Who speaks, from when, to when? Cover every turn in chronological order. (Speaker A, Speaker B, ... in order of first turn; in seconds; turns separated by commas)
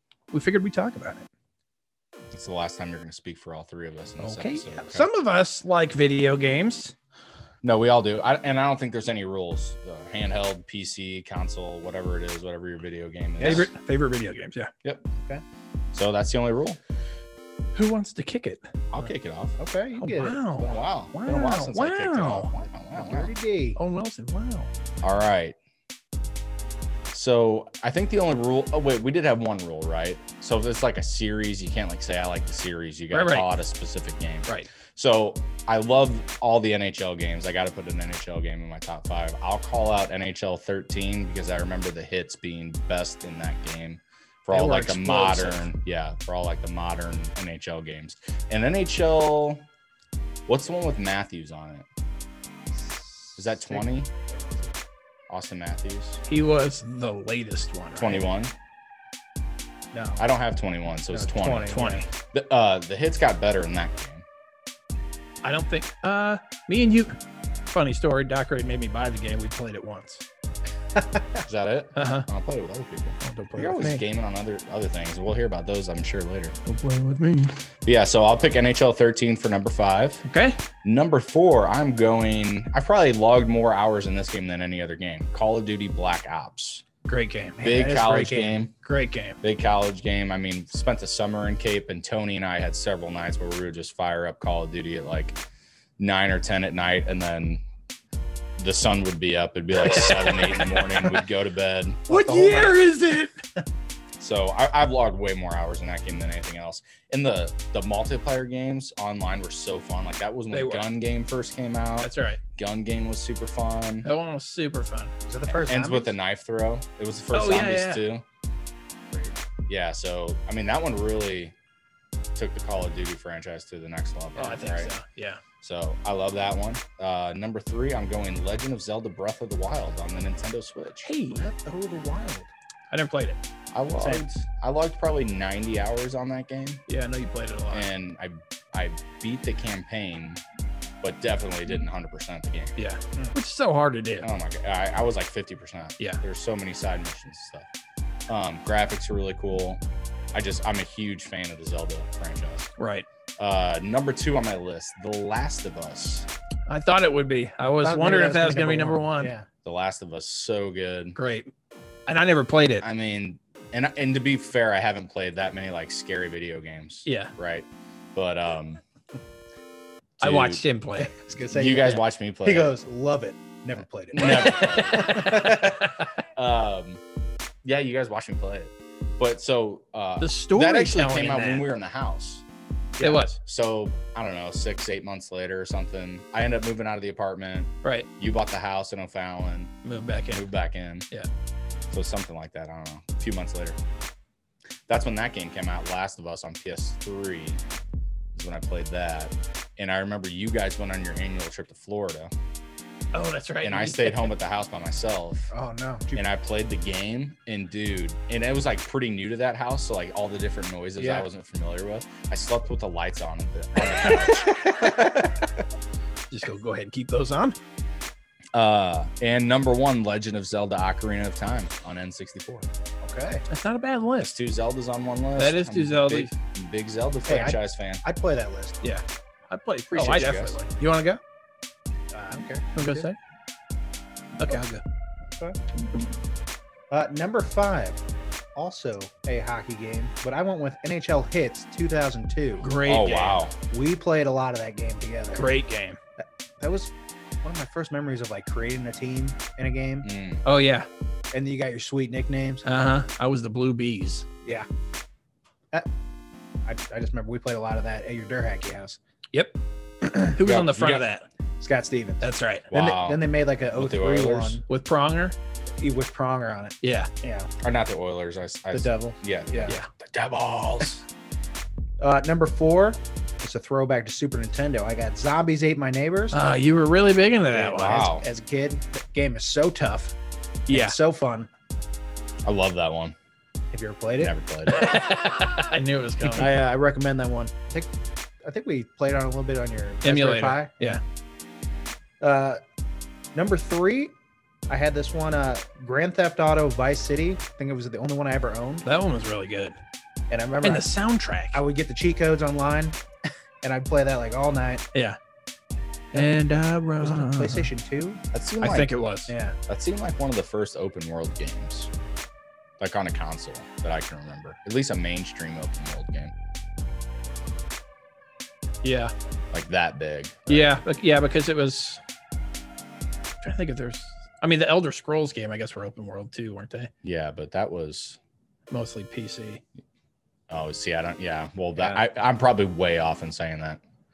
Speaker A: 0.3-1.2, Speaker B: 2.3-5.1, Speaker A: 4.2-6.9, Speaker B: 7.6-13.7, Speaker C: 13.4-13.7, Speaker A: 13.4-14.7, Speaker B: 14.8-15.1, Speaker C: 15.2-15.4, Speaker B: 15.9-16.8, Speaker A: 17.8-19.1, Speaker B: 18.9-19.6, Speaker C: 19.6-20.7, Speaker A: 20.0-22.5, Speaker B: 20.6-23.3, Speaker C: 22.9-23.8, Speaker A: 23.8-24.7, Speaker B: 25.0-25.6, Speaker B: 27.1-49.7, Speaker A: 33.1-33.5, Speaker A: 44.5-45.7, Speaker B: 50.5-51.9, Speaker C: 52.8-54.7, Speaker B: 53.4-54.1, Speaker B: 55.3-56.2, Speaker A: 56.3-58.3, Speaker B: 58.0-58.5, Speaker C: 59.9-60.3, Speaker B: 60.2-61.8, Speaker C: 61.1-62.0, Speaker A: 61.7-62.1, Speaker B: 62.3-64.2, Speaker A: 65.4-67.2, Speaker A: 67.7-70.2, Speaker B: 71.4-76.5, Speaker A: 72.0-72.3, Speaker A: 73.2-74.0, Speaker A: 76.7-77.6, Speaker B: 77.8-80.2, Speaker A: 80.2-80.6, Speaker B: 80.8-86.8, Speaker A: 87.1-87.6, Speaker C: 87.6-88.6, Speaker B: 87.6-88.7, Speaker A: 88.8-89.4, Speaker B: 89.4-95.4, Speaker B: 96.0-97.6, Speaker B: 98.6-102.1, Speaker A: 99.8-101.2, Speaker C: 102.1-102.8, Speaker A: 102.1-103.3, Speaker B: 104.2-114.1, Speaker A: 110.5-110.9, Speaker A: 112.0-112.4, Speaker A: 114.0-115.1, Speaker C: 115.3-116.2, Speaker B: 115.5-118.2, Speaker A: 117.3-118.0, Speaker B: 119.7-121.5, Speaker B: 122.4-124.9, Speaker A: 124.4-125.4, Speaker B: 125.6-131.1, Speaker A: 131.0-131.5, Speaker C: 131.3-132.5, Speaker A: 132.9-133.4, Speaker B: 133.7-136.8, Speaker C: 134.0-134.2, Speaker A: 136.9-137.9, Speaker B: 137.7-140.4, Speaker B: 141.0-142.8, Speaker A: 142.8-144.3, Speaker B: 144.2-147.7, Speaker B: 148.3-149.8, Speaker B: 150.3-152.7, Speaker A: 152.8-153.1, Speaker B: 153.4-156.3, Speaker A: 156.7-159.3, Speaker C: 157.8-159.5, Speaker B: 159.6-161.2, Speaker A: 161.2-161.5, Speaker A: 162.1-162.8, Speaker B: 162.8-168.8, Speaker A: 167.1-167.3, Speaker B: 170.2-170.6, Speaker A: 170.2-171.1, Speaker C: 171.0-175.7, Speaker B: 171.5-172.7, Speaker B: 174.1-177.0, Speaker A: 174.3-175.7, Speaker B: 177.6-182.4, Speaker A: 180.2-181.7, Speaker C: 183.0-183.3, Speaker A: 183.0-183.4, Speaker B: 183.4-189.7, Speaker A: 189.8-190.5, Speaker B: 190.3-191.1, Speaker B: 191.9-193.8, Speaker B: 194.9-197.6, Speaker B: 198.3-202.3, Speaker A: 203.1-204.3, Speaker B: 203.6-205.5, Speaker C: 205.5-206.3, Speaker B: 206.2-215.3, Speaker C: 211.0-211.3, Speaker C: 214.1-215.2, Speaker A: 216.3-217.6, Speaker B: 218.5-222.7, Speaker C: 223.0-223.4, Speaker A: 223.5-224.3, Speaker B: 224.2-228.0, Speaker A: 225.4-226.3, Speaker C: 227.3-228.8, Speaker A: 228.8-231.2, Speaker B: 229.9-230.6, Speaker C: 232.1-233.1, Speaker A: 232.8-233.2, Speaker A: 234.4-234.8, Speaker C: 235.3-235.6, Speaker C: 236.9-238.0, Speaker C: 238.6-242.7, Speaker A: 242.6-243.5, Speaker B: 242.8-243.6, Speaker C: 243.7-245.5, Speaker A: 245.4-246.0, Speaker C: 246.2-250.1, Speaker B: 250.0-250.4, Speaker A: 250.4-250.9, Speaker C: 251.3-252.7, Speaker A: 252.7-254.3, Speaker C: 256.6-259.0, Speaker A: 259.3-259.6, Speaker A: 260.2-261.3, Speaker B: 260.4-261.1, Speaker C: 261.6-264.6, Speaker A: 262.2-262.7, Speaker B: 262.7-263.2, Speaker B: 263.7-264.6, Speaker A: 264.7-265.4, Speaker C: 265.8-267.5, Speaker A: 266.8-267.1, Speaker B: 267.6-271.0, Speaker C: 268.7-269.8, Speaker C: 272.0-276.4, Speaker A: 276.3-278.0, Speaker C: 277.5-280.1, Speaker B: 277.8-278.3, Speaker A: 280.7-280.9, Speaker C: 280.7-281.5, Speaker B: 282.4-283.2, Speaker C: 283.7-284.3, Speaker B: 284.2-284.9, Speaker A: 284.7-286.6, Speaker C: 286.3-287.9, Speaker C: 288.4-291.0, Speaker A: 290.0-291.0, Speaker C: 292.2-292.6, Speaker C: 293.4-294.1, Speaker C: 294.7-298.9, Speaker A: 298.9-299.8, Speaker C: 300.3-300.9, Speaker A: 300.6-301.6, Speaker C: 301.5-303.0, Speaker C: 303.6-304.9, Speaker A: 306.1-307.7, Speaker C: 307.0-308.2, Speaker B: 308.3-308.9, Speaker A: 308.6-309.3, Speaker C: 309.3-309.6, Speaker B: 309.7-311.9, Speaker B: 312.8-316.3, Speaker A: 318.8-319.1, Speaker B: 319.5-320.8, Speaker A: 320.5-322.0, Speaker A: 323.4-326.9, Speaker B: 327.0-328.2, Speaker A: 328.7-329.6, Speaker B: 330.5-333.8